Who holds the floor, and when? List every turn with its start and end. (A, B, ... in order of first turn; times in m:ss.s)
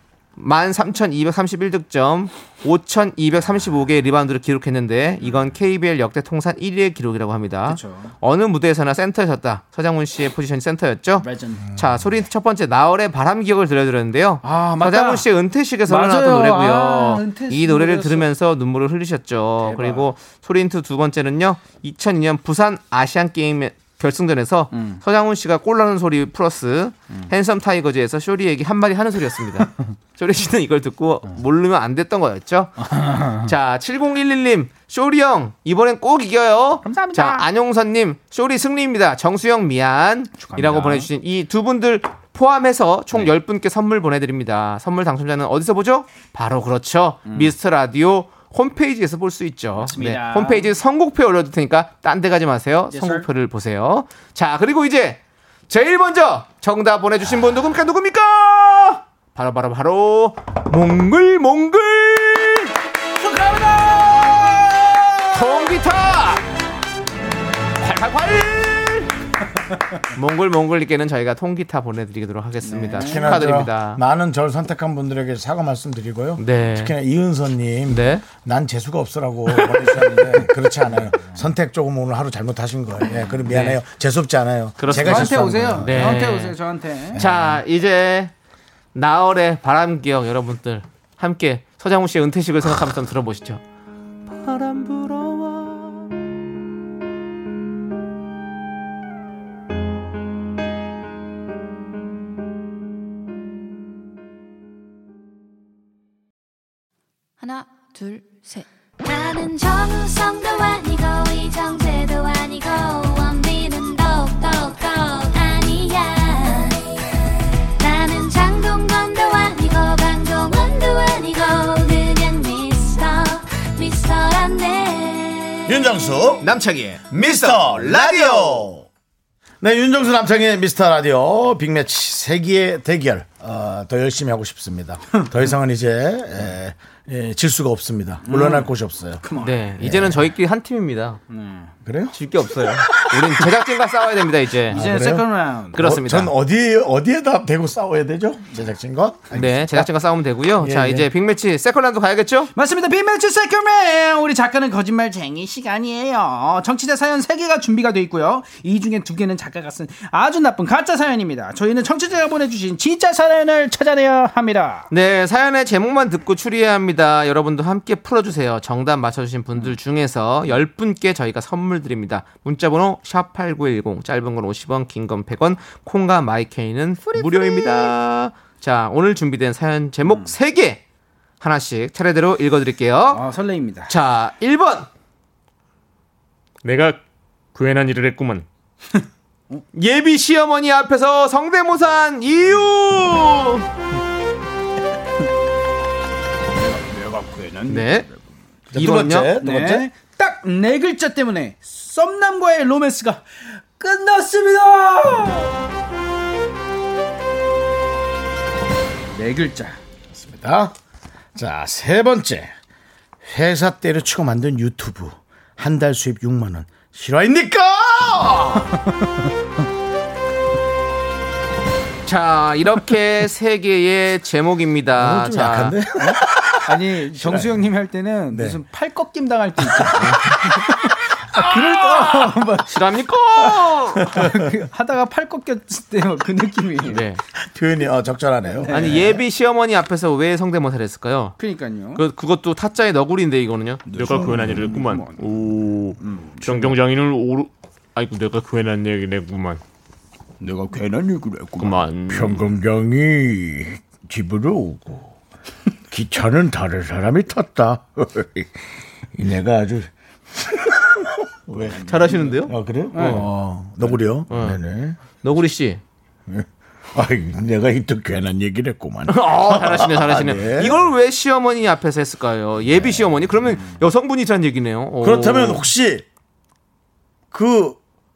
0:00.4-1:02.7 A
0:07.7-0:08.1 B
0:11.2-0:11.7 B
0:14.4-0:15.3 B
0:15.9-0:18.3 B
0:19.6-0:20.1 B
0:24.7-0:25.0 B
0:32.8-0:33.5 B
0:36.8-0:37.5 B
0:40.4-0:41.1 B
0:47.2-0:47.5 B
0:49.8-0:50.7 B
0:52.9-0:53.3 B
1:03.2-1:05.8 B
1:05.3-1:06.4 A
1:07.8-1:09.1 A
1:10.1-1:14.0 A
1:12.6-1:13.5 B
1:13.1-1:26.1 C
1:16.4-1:17.0 A
1:17.9-1:18.2 A
1:21.1-1:21.4 B
1:23.5-1:23.8 A
1:24.8-1:26.6 A
1:24.9-1:27.2 B
1:27.2-1:27.6 C
1:27.2-1:28.3 A
1:28.9-1:33.6 A
1:34.3-1:36.0 A
1:49.0-1:56.9 D
1:57.8-2:05.8 D
2:05.7-2:06.5 C
2:06.4-2:08.7 A
2:07.1-2:08.9 C
2:09.6-2:19.2 C
2:18.2-2:18.7 B
2:19.2-2:19.6 B
2:19.4-2:21.2 A
2:19.8-2:20.3 C
2:21.3-2:21.7 B
2:21.8-2:22.2 C
2:22.1-2:24.8 A
2:24.7-2:25.8 B
2:24.7-2:29.9 C
2:25.7-2:26.3 A
2:29.3-2:32.5 A
2:30.6-2:31.1 C
2:32.6-2:44.9 B
2:44.9-3:00.8 A
2:57.0-2:57.9 B
3:00.0-3:00.3 B
3:01.4-3:03.2 A
3:03.1-3:03.9 B
3:03.9-3:04.9 A
3:06.6-3:07.0 E
3:07.6-3:08.4 E
3:09.7-3:13.6 A
3:16.6-3:18.2 B
3:17.7-3:18.1 A
3:18.7-3:19.9 C
3:18.7-3:19.4 A
3:19.4-3:25.6 B
3:29.1-3:29.8 B
3:30.1-3:30.8 C
3:31.4-3:32.5 C
3:33.2-3:38.7 C
3:42.1-3:45.8 A
3:45.0-3:47.5 C
3:46.0-3:52.8 B
3:48.3-3:48.6 C
3:50.0-3:50.2 A
3:52.7-3:54.2 A
3:53.4-3:57.1 B
3:56.9-3:57.2 A
3:57.5-3:59.2 C
3:58.6-3:59.2 B
3:58.7-4:01.4 A
4:01.4-4:02.0 B
4:02.0-4:03.8 A
4:03.9-4:05.2 B
4:04.0-4:05.9 E
4:04.1-4:04.7 C
4:06.0-4:06.8 B
4:06.6-4:09.6 E
4:10.4-4:11.6 B
4:11.6-4:12.3 E
4:11.9-4:15.2 C
4:15.9-4:18.5 C
4:19.1-4:25.0 C
4:21.9-4:23.3 A
4:22.9-4:23.3 B
4:24.3-4:24.6 A
4:25.2-4:25.8 A
4:26.3-4:30.8 C
4:29.1-4:35.7 A
4:35.0-4:36.0 C
4:37.3-4:37.8 C